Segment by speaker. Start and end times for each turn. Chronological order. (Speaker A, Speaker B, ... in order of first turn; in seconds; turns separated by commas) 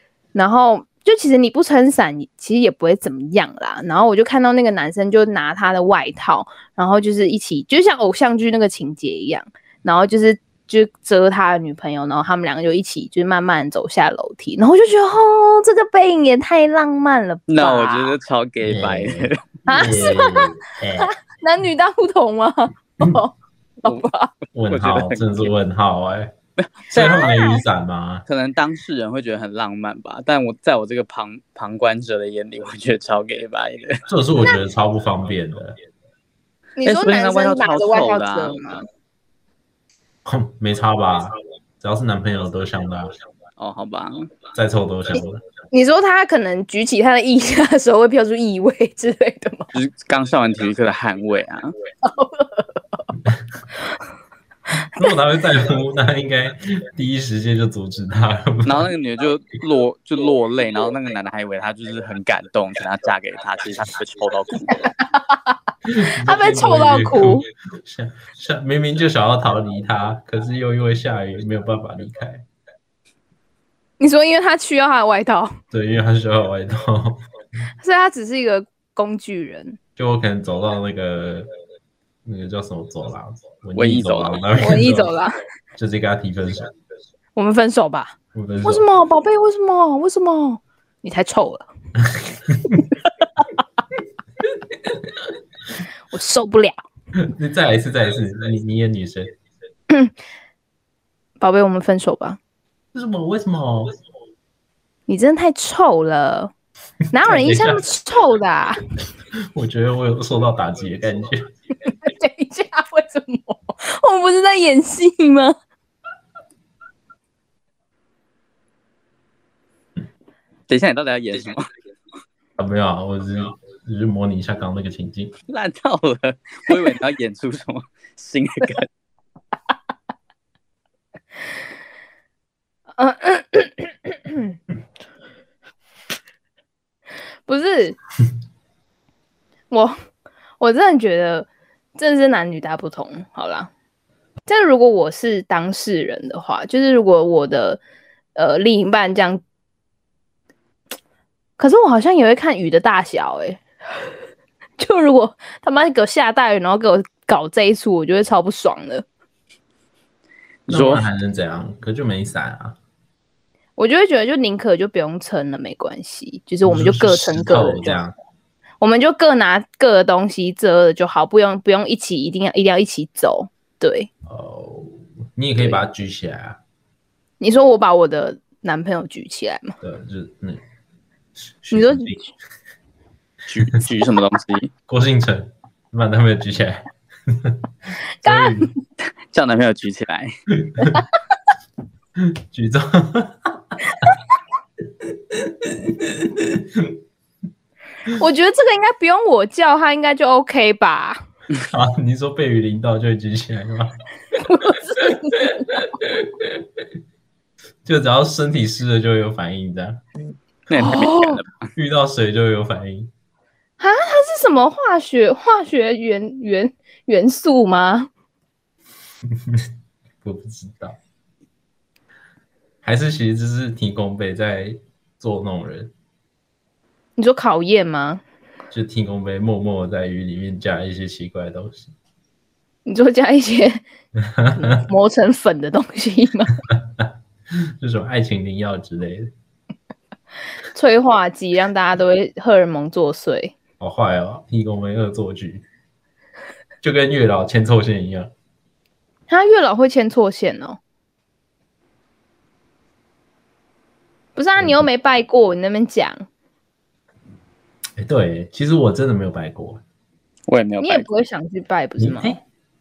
Speaker A: 0.3-18.1, Speaker B: 17.5-19.4, Speaker C: 18.6-21.1, Speaker A: 19.7-24.3, Speaker C: 24.5-26.3, Speaker B: 24.7-25.5, Speaker B: 26.6-27.3, Speaker C: 26.9-28.2, Speaker A: 27.0-27.6, Speaker B: 28.3-34.0, Speaker C: 34.1-35.8, Speaker A: 36.8-38.8, Speaker B: 36.9-38.6, Speaker C: 40.2-43.1, Speaker B: 43.6-44.3, Speaker C: 44.5-45.4, Speaker A: 45.7-49.7, Speaker B: 49.7-51.7, Speaker A: 52.0-52.8, Speaker C: 54.9-58.9, Speaker B: 58.6-64.7, Speaker A: 64.7-65.4, Speaker C: 65.9-72.5, Speaker A: 66.2-67.5, Speaker A: 74.0-75.5, Speaker C: 75.7-77.2, Speaker A: 77.8-79.8, Speaker C: 80.0-81.5, Speaker C: 82.2-85.1, Speaker B: 83.8-84.4, Speaker A: 84.6-85.4, Speaker C: 85.8-86.7, Speaker A: 87.4-91.7, Speaker C: 88.3-88.8, Speaker C: 92.1-92.9, Speaker C: 94.7-95.0, Speaker A: 96.1-96.8, Speaker C: 97.2-99.3, Speaker A: 101.4-102.4, Speaker C: 102.9-103.9, Speaker A: 105.1-106.5, Speaker A: 107.1-108.8, Speaker C: 107.2-107.8, Speaker C: 109.4-111.5, Speaker A: 111.9-115.5, Speaker B: 120.7-121.7, Speaker C: 122.6-125.3, Speaker B: 125.5-128.9, Speaker A: 133.0-134.5, Speaker A: 137.5-138.0, Speaker A: 139.7-139.9, Speaker A: 140.6-143.7, Speaker A: 144.5-147.8, Speaker A: 148.3-149.4, Speaker A: 151.6-153.6, Speaker A: 154.8-159.0, Speaker B: 160.7-161.0, Speaker C: 160.7-162.8, Speaker A: 163.8-168.0, Speaker C: 166.6-168.1, Speaker A: 168.8-174.1, Speaker C: 174.3-176.6, Speaker A: 177.4-179.8, Speaker C: 179.8-180.6, Speaker C: 181.4-182.2, Speaker A: 181.7-182.1, Speaker B: 183.5-184.7, Speaker C: 184.9-187.6, Speaker A: 188.2-188.7, Speaker C: 188.2-188.7, Speaker B: 189.3-190.3, Speaker C: 190.6-191.0, Speaker C: 192.2-193.6, Speaker C: 195.0-196.9, Speaker A: 198.2-201.2, Speaker C: 201.7-204.0, Speaker A: 204.4-205.9, Speaker C: 205.8-206.6, Speaker C: 207.8-210.0, Speaker B: 210.7-211.7, Speaker A: 210.7-211.4, Speaker C: 211.8-213.1, Speaker A: 213.8-218.1, Speaker C: 219.3-219.7, Speaker C: 220.2-221.0, Speaker C: 222.8-225.9, Speaker A: 227.2-228.2, Speaker C: 228.7-231.9, Speaker A: 232.9-233.8, Speaker C: 234.3-234.7, Speaker A: 234.6-236.6, Speaker C: 236.8-237.1, Speaker C: 237.8-239.3, Speaker A: 240.7-243.6, Speaker C: 243.8-245.6, Speaker C: 246.8-248.3, Speaker A: 249.3-250.8, Speaker A: 254.4-256.2, Speaker C: 254.6-254.9, Speaker C: 258.0-259.8, Speaker B: 260.5-261.1, Speaker A: 260.8-262.4, Speaker C: 262.0-262.4